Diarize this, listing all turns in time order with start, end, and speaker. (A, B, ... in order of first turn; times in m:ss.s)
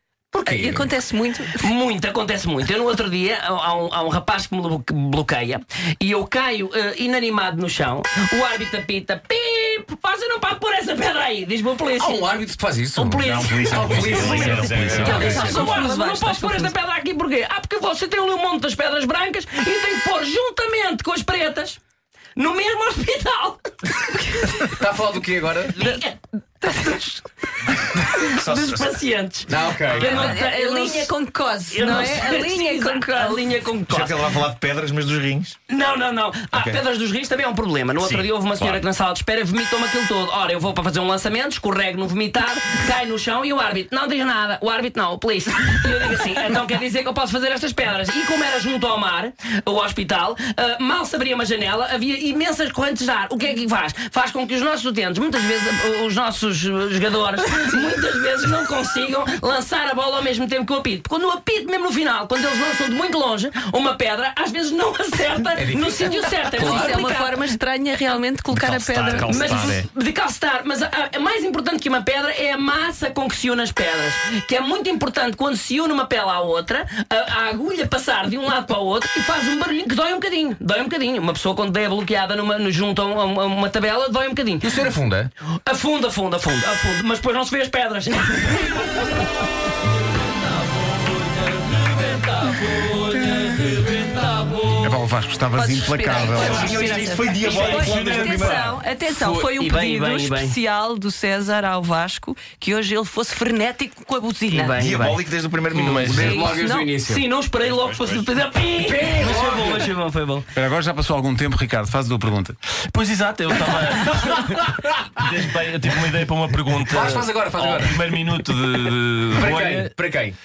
0:00.3-0:00.9 A
0:00.4-0:01.6 B
0:01.5-0:12.2 C
0:12.0-0:15.8 A
0:13.0-0:21.8 C
0:13.2-0:15.8 D
0:14.4-0:15.3 E
0:15.0-0:16.7 B
0:22.4-0:24.8 C
0:24.7-0:25.7 A
0:25.7-0:31.1 C
0:28.3-0:29.0 D
0:29.5-0:30.2 A
0:29.9-0:33.4 B
0:31.7-0:34.4 C
0:33.9-0:35.6 D
0:35.7-1:07.4 C
0:36.5-0:36.8 D
0:38.0-0:38.8 D
1:05.6-1:07.0 A
1:06.6-1:09.8 B
1:08.7-1:09.3 F
1:08.8-1:09.3 D
1:09.1-1:09.7 E
1:09.2-1:24.8 C
1:24.6-1:25.3 A
1:25.6-1:29.1 C
1:31.4-1:34.6 C
1:34.8-1:36.7 F
1:35.5-1:44.8 B
1:36.4-1:38.8 D
1:37.6-1:38.6 E
1:39.2-1:39.5 A
1:39.6-1:40.6 C
1:44.5-1:45.2 C
1:44.8-1:46.4 D
1:45.7-1:46.6 E
1:46.0-1:46.9 B
1:46.1-1:47.2 A
1:47.0-1:50.5 C
1:48.8-1:49.9 A
1:50.5-1:52.6 F
1:52.9-1:59.9 E
1:56.9-1:58.1 A
1:59.3-2:00.4 A